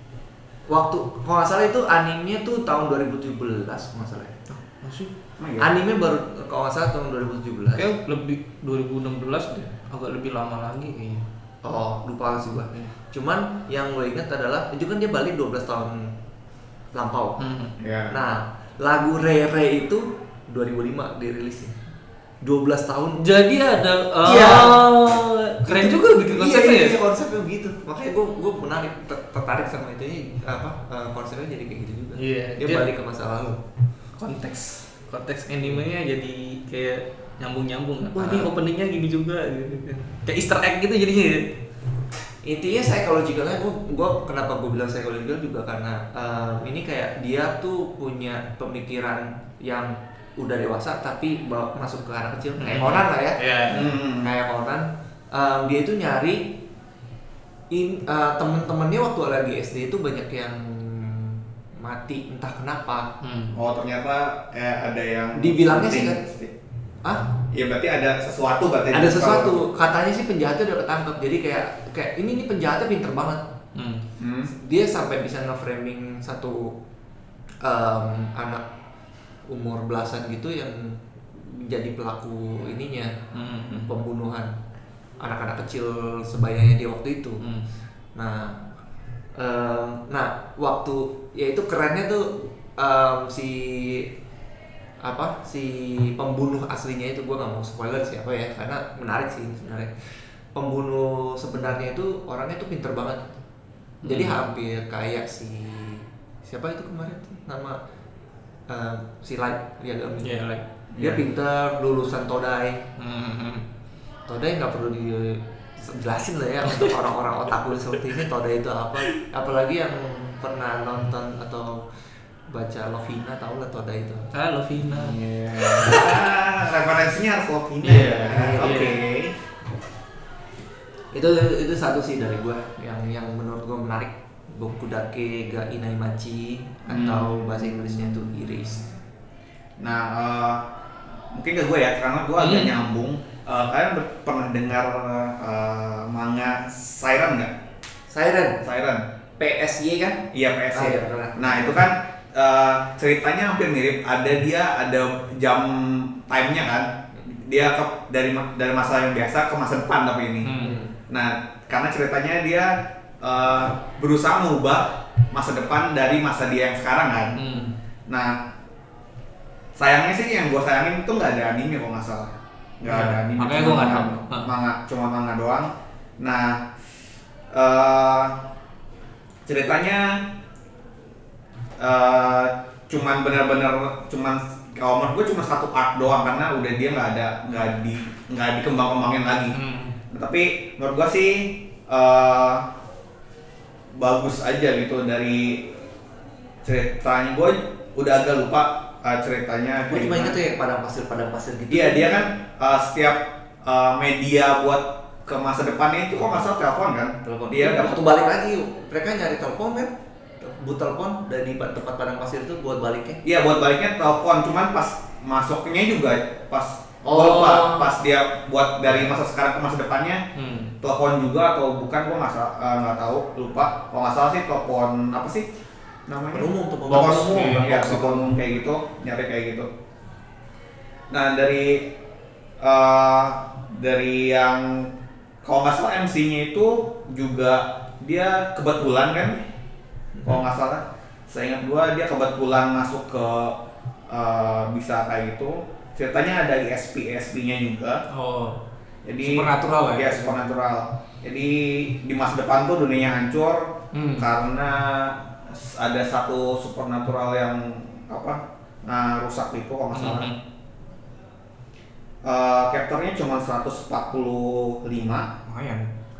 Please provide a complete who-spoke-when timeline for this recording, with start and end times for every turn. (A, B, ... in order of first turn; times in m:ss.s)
0:00.7-0:04.3 A
0:04.5-0:05.1 B
0:05.4-0:05.7 C
0:05.6-0:07.9 A
0:07.7-0:11.2 B
0:11.6-0:16.2 A
0:16.9-0:17.4 A
0:17.4-0:17.7 B
0:17.8-0:18.1 C
0:18.1-0:21.8 A
0:22.4-0:23.2 A
0:23.2-0:27.0 B
0:24.2-0:24.9 A
0:25.6-0:33.6 A
0:32.2-0:32.8 B
0:34.2-0:41.5 B
0:38.2-0:38.5 A
0:42.4-0:56.6 A
0:52.6-0:53.9 B
0:53.7-0:54.3 C
0:57.7-1:03.1 A
1:03.2-1:03.5 B
1:03.5-1:06.5 C
1:05.4-1:06.2 A
1:07.5-1:09.6 C
1:08.9-1:13.4 A
1:13.7-1:14.0 B
1:14.2-1:14.5 C
1:14.5-1:16.8 A
1:17.6-1:18.6 A
1:19.5-1:23.1 A
1:23.3-1:23.9 B
1:23.9-1:24.5 A
1:25.2-1:27.4 A
1:28.2-1:28.6 A
1:29.4-1:34.1 A
1:35.0-1:39.9 A
1:40.5-1:43.4 A
1:44.0-1:44.4 B
1:44.0-1:47.8 A
1:48.7-1:50.3 A
1:50.2-1:50.6 B
1:50.9-1:51.2 C
1:51.0-1:52.8 A
1:53.0-1:53.6 B
1:54.3-2:01.8 A
2:02.5-2:04.3 A
2:04.3-2:06.2 B
2:04.8-2:09.4 C
2:07.8-2:09.0 A
2:07.9-2:09.0 B
2:11.1-2:18.9 A
2:19.8-2:20.6 C
2:21.3-2:27.5 C
2:22.4-2:22.7 B
2:28.1-2:28.6 A
2:28.6-2:29.1 C
2:29.4-2:31.7 A
2:30.3-2:47.4 C
2:40.4-2:40.8 B
2:40.6-2:40.9 A
2:47.4-2:47.7 B
2:48.1-2:48.4 C
2:49.8-2:56.7 C
2:52.8-2:54.5 B
2:57.5-2:58.4 C
2:59.4-3:00.2 C
3:01.8-3:09.6 C
3:09.5-3:09.9 B
3:10.1-3:12.6 C
3:13.9-3:15.7 C
3:16.6-3:20.4 C
3:19.9-3:22.3 A
3:21.7-3:28.1 C
3:27.2-3:33.2 A
3:33.2-3:40.2 C
3:37.0-3:37.9 A
3:40.4-3:40.7 B
3:40.8-3:45.5 C
3:46.1-3:49.7 C
3:46.3-3:48.3 A
3:46.9-3:47.8 B
3:51.1-3:51.9 C
3:52.6-3:54.9 C
3:55.4-3:59.4 C
4:00.2-4:03.6 C
4:04.1-4:08.0 C
4:08.1-4:08.6 B
4:09.0-4:20.3 C
4:09.2-4:10.3 B
4:13.9-4:14.3 B
4:19.9-4:20.4 B
4:22.2-4:25.3 C
4:25.5-4:25.9 B